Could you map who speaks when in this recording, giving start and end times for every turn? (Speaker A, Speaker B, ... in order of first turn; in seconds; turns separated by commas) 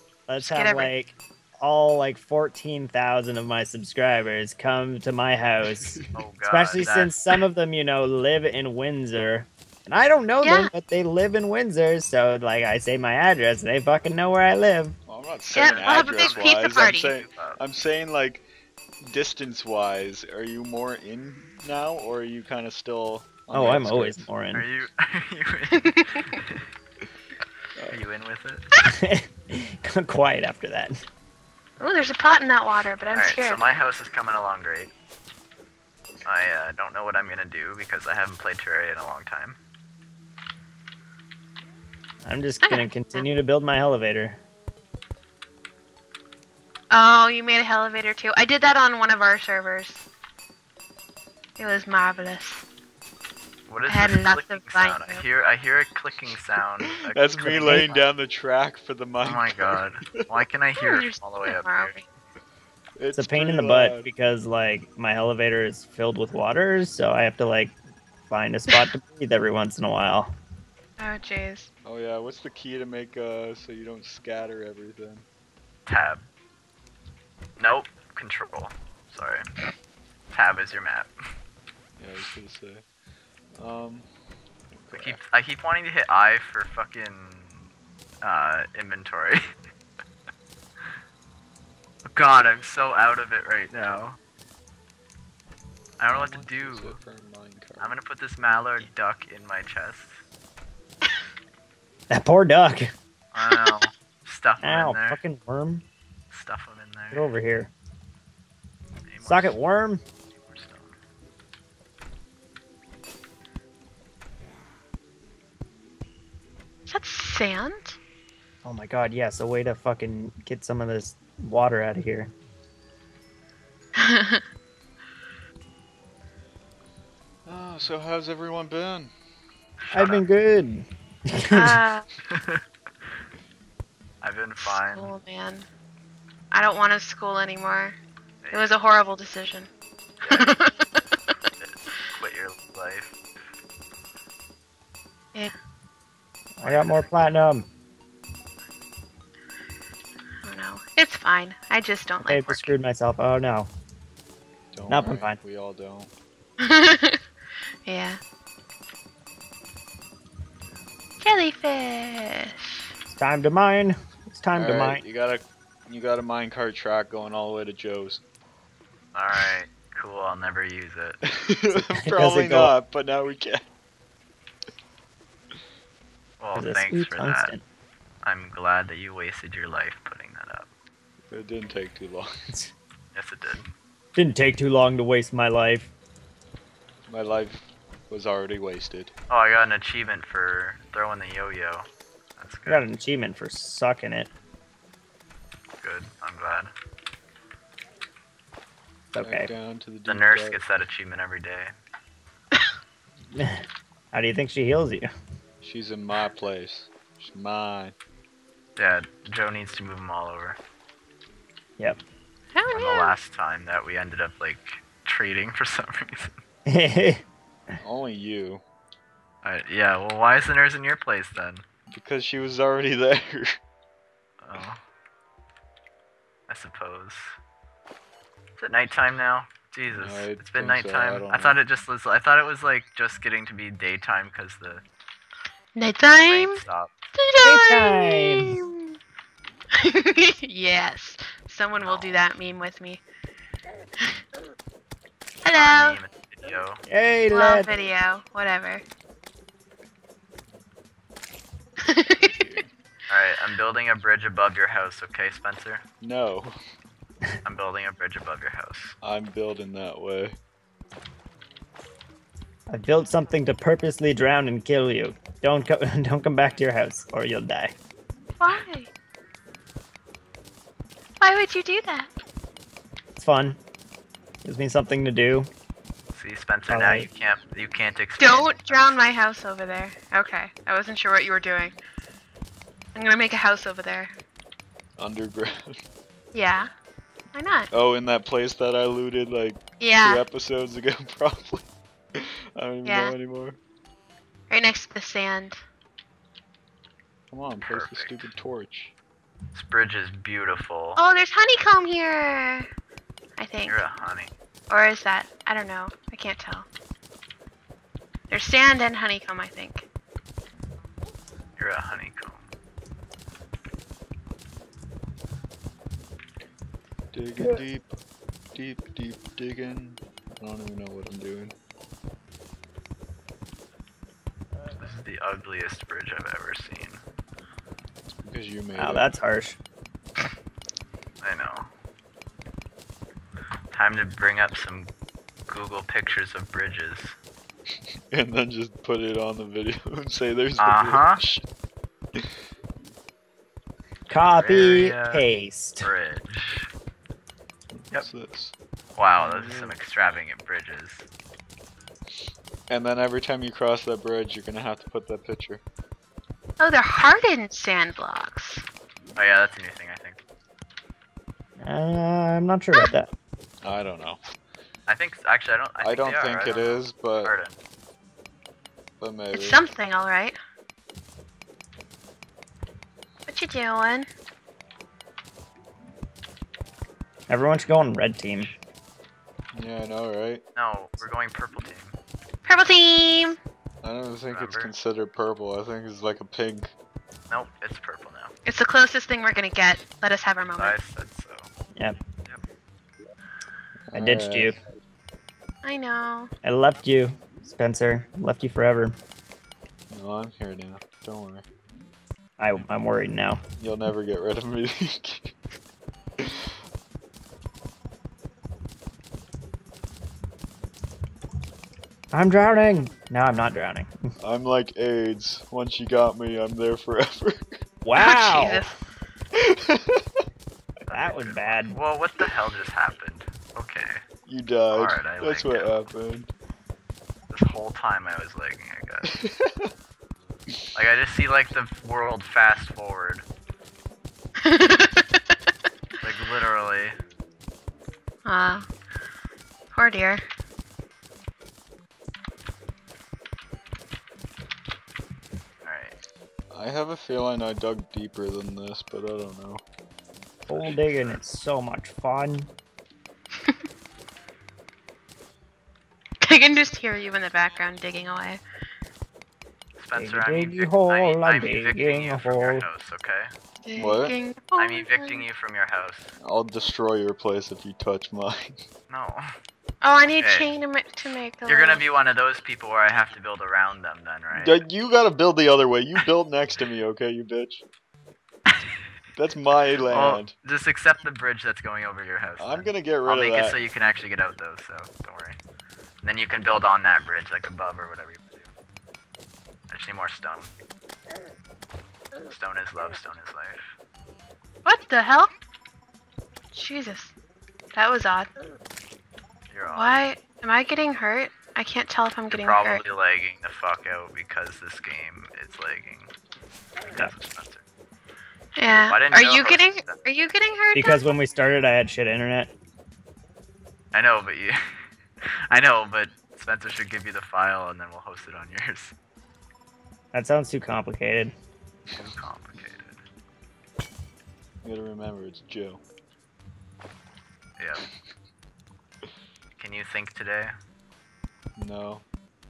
Speaker A: 0.3-15.0, Speaker B: 0.4-0.9, Speaker C: 5.7-6.2, Speaker D: 6.1-7.1, Speaker B: 10.4-10.7, Speaker C: 15.1-18.4, Speaker B: 15.5-17.1, Speaker D: 15.7-16.6, Speaker D: 17.1-17.6, Speaker C: 19.0-24.3, Speaker A: 23.5-24.7, Speaker D: 24.5-26.7, Speaker B: 25.7-26.2, Speaker C: 27.8-28.0, Speaker D: 27.9-28.6, Speaker A: 28.9-31.0, Speaker B: 31.8-33.7, Speaker D: 33.1-34.9, Speaker D: 36.2-39.6, Speaker A: 42.2-44.4, Speaker B: 42.6-43.3, Speaker B: 46.9-50.0, Speaker B: 51.6-52.6, Speaker D: 53.7-57.9, Speaker B: 53.9-55.2, Speaker C: 57.1-60.2, Speaker A: 57.4-58.0, Speaker D: 59.2-62.0, Speaker B: 60.8-62.0, Speaker C: 63.0-64.1, Speaker A: 63.1-70.3, Speaker B: 71.0-71.7, Speaker C: 71.8-75.3, Speaker D: 75.9-76.3, Speaker D: 77.6-79.5, Speaker D: 80.3-81.1, Speaker C: 82.0-82.8, Speaker C: 83.5-84.1, Speaker C: 84.7-85.2, Speaker D: 84.9-87.6, Speaker D: 88.2-89.4, Speaker D: 92.1-94.2, Speaker D: 96.0-97.0, Speaker C: 96.1-98.0, Speaker D: 97.8-100.2, Speaker A: 102.1-102.9, Speaker D: 103.3-105.2, Speaker A: 104.6-105.8, Speaker D: 106.3-107.3, Speaker A: 107.1-107.7, Speaker D: 109.1-109.6, Speaker A: 109.2-110.0, Speaker D: 110.4-111.0, Speaker B: 116.9-118.0, Speaker A: 118.6-122.3, Speaker B: 124.0-124.4, Speaker C: 127.5-129.1, Speaker D: 129.8-130.2, Speaker A: 129.9-131.8, Speaker B: 131.5-132.1, Speaker D: 132.3-132.6, Speaker D: 134.2-135.1, Speaker B: 134.6-135.7, Speaker B: 136.5-138.0, Speaker D: 138.4-138.7, Speaker B: 138.5-139.7, Speaker D: 140.2-140.5, Speaker B: 140.4-141.0, Speaker D: 141.5-143.2, Speaker A: 146.6-147.7, Speaker D: 146.6-147.3, Speaker B: 150.4-152.8, Speaker A: 152.3-153.7, Speaker C: 154.7-156.1, Speaker A: 154.9-155.4, Speaker B: 156.6-157.2, Speaker B: 157.9-158.2, Speaker B: 161.2-162.8, Speaker A: 163.1-165.0, Speaker C: 164.6-168.2, Speaker D: 169.1-171.2, Speaker C: 171.3-173.7, Speaker A: 171.7-172.7, Speaker D: 176.4-177.5, Speaker A: 176.6-177.6, Speaker D: 178.2-180.7, Speaker C: 181.3-182.3, Speaker D: 183.1-183.7, Speaker A: 184.2-185.9, Speaker C: 187.1-189.1, Speaker D: 189.3-192.8, Speaker A: 192.7-194.3, Speaker D: 195.8-196.7, Speaker A: 199.1-199.5, Speaker C: 199.2-200.6, Speaker D: 200.1-201.7, Speaker A: 203.3-205.1, Speaker C: 205.6-207.9, Speaker D: 208.8-210.6, Speaker B: 212.5-213.2, Speaker D: 212.7-216.3, Speaker A: 216.7-217.8, Speaker C: 217.8-218.6, Speaker D: 219.4-221.6, Speaker C: 221.9-223.6, Speaker D: 224.4-224.8, Speaker D: 226.5-227.4, Speaker D: 228.6-234.8, Speaker C: 229.9-231.6, Speaker B: 235.8-236.6, Speaker D: 236.2-237.0, Speaker B: 237.2-238.8, Speaker A: 237.4-238.6, Speaker B: 239.8-243.0, Speaker D: 241.8-242.3, Speaker B: 245.4-246.0, Speaker D: 245.5-246.8, Speaker A: 246.9-247.7, Speaker B: 247.3-248.8, Speaker B: 251.8-252.3, Speaker C: 252.2-252.7, Speaker D: 253.1-255.8, Speaker C: 256.0-256.5, Speaker D: 257.4-258.9, Speaker C: 259.0-260.4, Speaker A: 262.7-267.8, Speaker B: 268.4-268.9, Speaker B: 271.2-272.1, Speaker A: 273.2-273.6, Speaker A: 274.4-275.5, Speaker D: 276.1-278.9, Speaker A: 276.7-277.1, Speaker B: 278.2-281.8, Speaker B: 282.9-284.1, Speaker C: 285.0-285.8, Speaker B: 286.3-286.7, Speaker B: 287.3-287.7, Speaker C: 287.7-293.6, Speaker B: 289.8-290.2, Speaker B: 292.8-293.1, Speaker B: 294.5-295.6, Speaker C: 297.3-298.9, Speaker D: 297.6-298.3, Speaker D: 299.5-301.0, Speaker B: 301.0-302.7, Speaker B: 303.4-303.8, Speaker D: 303.7-304.3, Speaker B: 304.7-306.7, Speaker B: 308.3-309.9, Speaker D: 311.6-312.4, Speaker C: 317.1-318.0, Speaker A: 317.4-317.6, Speaker C: 318.6-321.5, Speaker D: 324.7-327.0, Speaker C: 328.1-329.1, Speaker A: 328.8-329.6, Speaker D: 331.2-331.7, Speaker D: 333.7-334.9, Speaker D: 335.5-337.1, Speaker C: 338.1-341.4, Speaker D: 340.6-341.2, Speaker A: 344.1-345.9, Speaker D: 344.3-345.2, Speaker D: 345.8-346.7, Speaker C: 347.7-348.5, Speaker D: 349.0-351.1, Speaker C: 349.2-349.8, Speaker C: 352.7-355.6, Speaker B: 356.6-358.6, Speaker D: 359.2-360.2, Speaker A: 361.6-363.1, Speaker C: 363.6-364.2, Speaker D: 364.9-367.6, Speaker C: 365.8-367.4, Speaker C: 369.0-369.6, Speaker B: 369.3-370.4, Speaker B: 373.3-374.1, Speaker A: 377.3-378.5, Speaker C: 379.5-380.4, Speaker D: 380.6-381.9, Speaker B: 382.4-383.4, Speaker C: 383.8-386.7, Speaker D: 384.3-384.7, Speaker D: 387.3-388.3, Speaker B: 388.5-390.8, Speaker D: 390.6-391.5, Speaker C: 393.9-394.6, Speaker A: 393.9-394.6, Speaker B: 395.6-396.3, Speaker A: 396.4-398.9, Speaker C: 399.9-401.4, Speaker A: 402.4-403.4, Speaker C: 403.6-405.4, Speaker A: 412.1-414.1, Speaker C: 414.2-417.6, Speaker A: 417.8-418.6, Speaker B: 418.0-418.8, Speaker C: 419.4-420.0, Speaker D: 420.9-424.0, Speaker A: 420.9-421.8, Speaker C: 424.3-426.3, Speaker D: 424.7-425.9, Speaker D: 427.3-429.2, Speaker C: 429.2-429.7, Speaker D: 430.7-433.2, Speaker B: 434.4-435.4, Speaker D: 436.0-437.0, Speaker B: 438.2-438.6, Speaker B: 439.7-440.2, Speaker D: 445.6-445.9, Speaker C: 446.5-449.6, Speaker A: 450.5-452.5, Speaker D: 450.5-451.1, Speaker B: 456.2-458.4, Speaker D: 459.8-463.3, Speaker A: 459.9-462.7, Speaker B: 463.6-465.2, Speaker C: 463.8-464.1, Speaker D: 464.6-466.1, Speaker C: 466.2-468.6, Speaker D: 468.9-469.2, Speaker B: 469.8-471.8, Speaker D: 470.2-470.5, Speaker D: 471.5-474.6, Speaker C: 474.3-477.6, Speaker D: 478.5-478.8, Speaker C: 479.2-480.3, Speaker D: 479.9-485.4, Speaker C: 482.4-483.6, Speaker D: 486.0-488.4, Speaker D: 489.7-490.5, Speaker D: 492.2-493.8, Speaker B: 494.6-495.3, Speaker B: 496.5-497.1, Speaker B: 497.7-498.3, Speaker D: 499.5-500.1, Speaker B: 499.7-502.8, Speaker D: 502.3-506.1, Speaker D: 506.9-507.6, Speaker B: 508.6-511.1, Speaker D: 508.7-510.0, Speaker A: 510.7-512.5, Speaker D: 513.9-514.6, Speaker D: 515.5-519.0, Speaker A: 520.1-521.3, Speaker D: 521.9-523.0, Speaker C: 524.6-525.8, Speaker D: 527.6-527.8, Speaker D: 529.6-530.5, Speaker C: 531.6-532.0